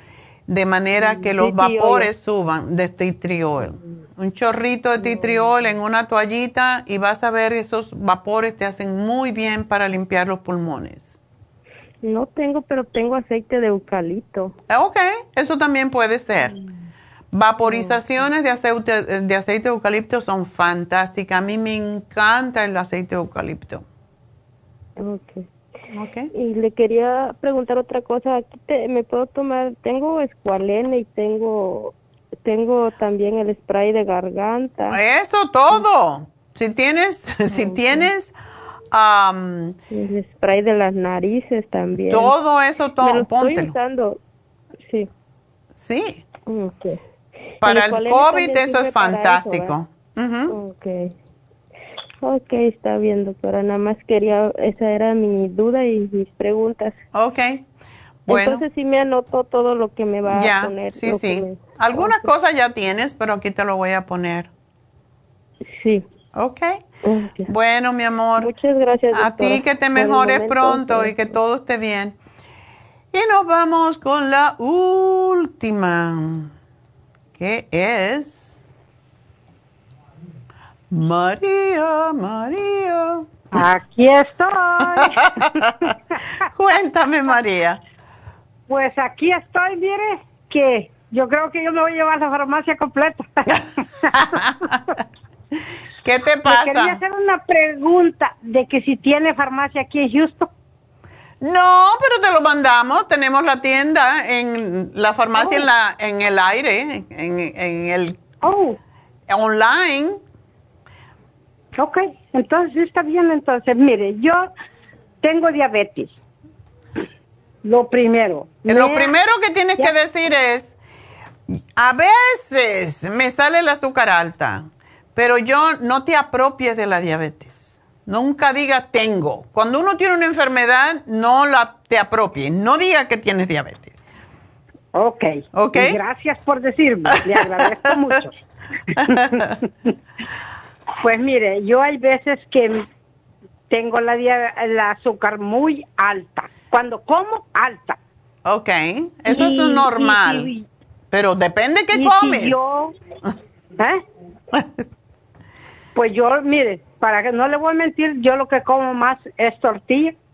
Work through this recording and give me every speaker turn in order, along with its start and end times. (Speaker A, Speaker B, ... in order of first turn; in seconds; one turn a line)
Speaker A: 0.5-11.1
Speaker B: 1.0-2.1
Speaker B: 5.0-5.6
Speaker B: 12.0-14.5
Speaker A: 14.7-16.5
Speaker A: 17.3-23.8
Speaker B: 17.6-18.3
Speaker B: 25.0-25.4
Speaker A: 25.9-26.3
Speaker B: 26.3-35.0
Speaker A: 34.9-38.3
Speaker B: 37.5-38.1
Speaker A: 38.9-39.8
Speaker B: 39.9-42.3
Speaker A: 42.1-43.7
Speaker B: 43.0-44.2
Speaker A: 45.8-46.2
Speaker B: 46.5-47.0
Speaker B: 47.6-49.8
Speaker A: 47.6-50.5
Speaker B: 50.5-51.1
Speaker B: 52.2-57.0
Speaker A: 57.1-57.6
Speaker B: 58.3-62.3
Speaker A: 58.3-58.6
Speaker A: 60.3-64.5
Speaker B: 65.7-66.0
Speaker A: 66.3-66.8
Speaker B: 67.0-67.5
Speaker A: 67.5-68.5
Speaker B: 68.4-71.4
Speaker A: 69.1-72.2
Speaker A: 73.1-76.5
Speaker A: 77.4-78.6
Speaker A: 80.9-83.4
Speaker C: 83.5-85.4
Speaker A: 85.0-85.7
Speaker A: 86.5-87.8
Speaker C: 88.7-94.2
Speaker A: 94.1-94.7
Speaker A: 96.0-97.0
Speaker C: 96.5-100.5
Speaker A: 101.4-108.2
Speaker C: 105.4-105.6
Speaker C: 108.4-108.8
Speaker A: 109.3-110.2
Speaker C: 111.8-114.5
Speaker C: 115.2-116.1
Speaker C: 117.6-119.1
Speaker A: 118.7-120.7
Speaker A: 121.5-133.9
Speaker C: 134.9-138.3
Speaker A: 135.5-136.0
Speaker A: 137.2-137.7
Speaker A: 139.0-139.4
Speaker C: 139.1-139.7
Speaker C: 141.0-142.8
Speaker C: 143.7-148.0
Speaker A: 148.4-150.5
Speaker C: 149.3-150.7
Speaker A: 151.1-152.7
Speaker C: 151.9-152.9
Speaker C: 155.9-160.1